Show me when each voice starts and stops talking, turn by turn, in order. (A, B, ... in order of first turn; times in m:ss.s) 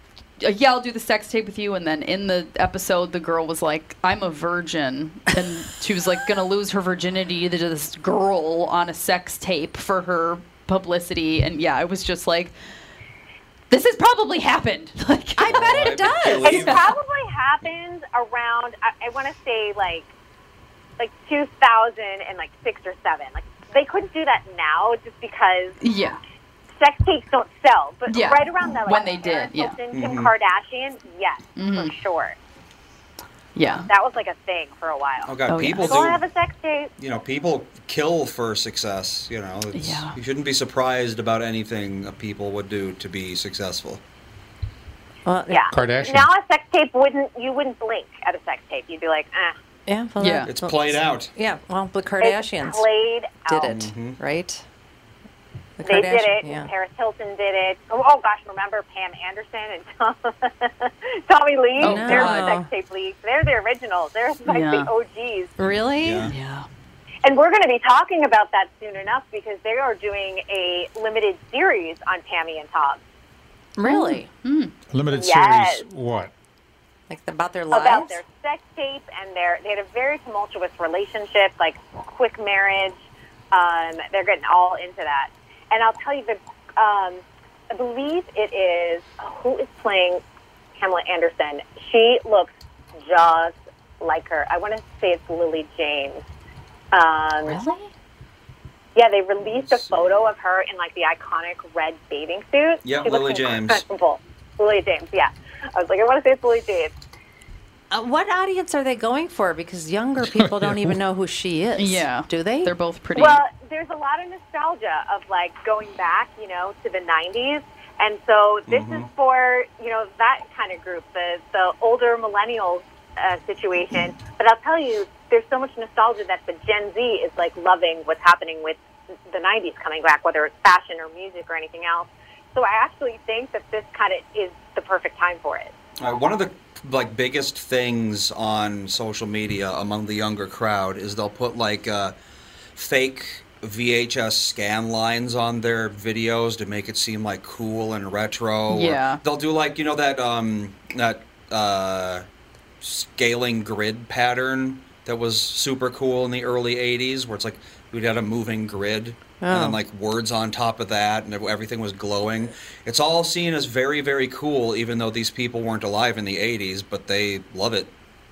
0:00.4-0:12.5 A
0:13.7-0:16.0 A
0:15.4-0:16.8 B
0:15.5-0:17.0 C
0:16.4-0:20.1 D
0:21.0-0:25.8 D
0:25.8-0:26.2 A
0:26.8-0:32.4 D
0:28.1-0:29.8 A
0:29.9-0:30.3 C
0:31.6-0:31.9 A
0:33.6-0:33.9 A
0:33.6-0:36.9 D
0:35.3-0:36.2 C
0:35.5-0:35.9 A
0:37.0-0:44.0 C
0:39.8-0:40.2 A
0:45.3-0:45.7 B
0:45.5-0:49.6 D
0:45.7-0:46.3 E
0:49.9-0:52.9 B
0:50.2-0:50.5 A
0:50.5-0:51.3 C
0:52.2-0:53.8 D
0:53.4-0:54.6 B
0:53.7-0:54.2 C
0:55.8-0:56.7 B
0:55.8-1:05.5 D
1:01.8-1:02.5 A
1:01.8-1:02.7 B
1:04.5-1:04.9 A
1:05.6-1:06.3 B
1:06.0-1:06.3 C
1:06.3-1:06.7 A
1:07.2-1:13.0 D
1:13.8-1:14.3 B
1:13.8-1:14.7 A
1:14.9-1:16.3 E
1:15.2-1:15.9 D
1:17.1-1:18.2 B
1:17.7-1:30.2 D
1:30.8-1:36.2 D
1:36.9-1:37.6 D
1:37.4-1:37.9 A
1:39.0-1:46.9 D
1:39.5-1:40.3 C
1:42.8-1:43.8 C
1:47.9-1:52.7 B
1:50.3-1:51.0 E
1:51.8-1:53.4 A
1:53.2-2:15.7 D
1:58.7-1:59.1 C
2:16.0-2:22.1 C
2:22.8-2:32.2 C
2:28.7-2:29.2 A
2:32.8-2:47.9 C
2:39.4-2:39.8 B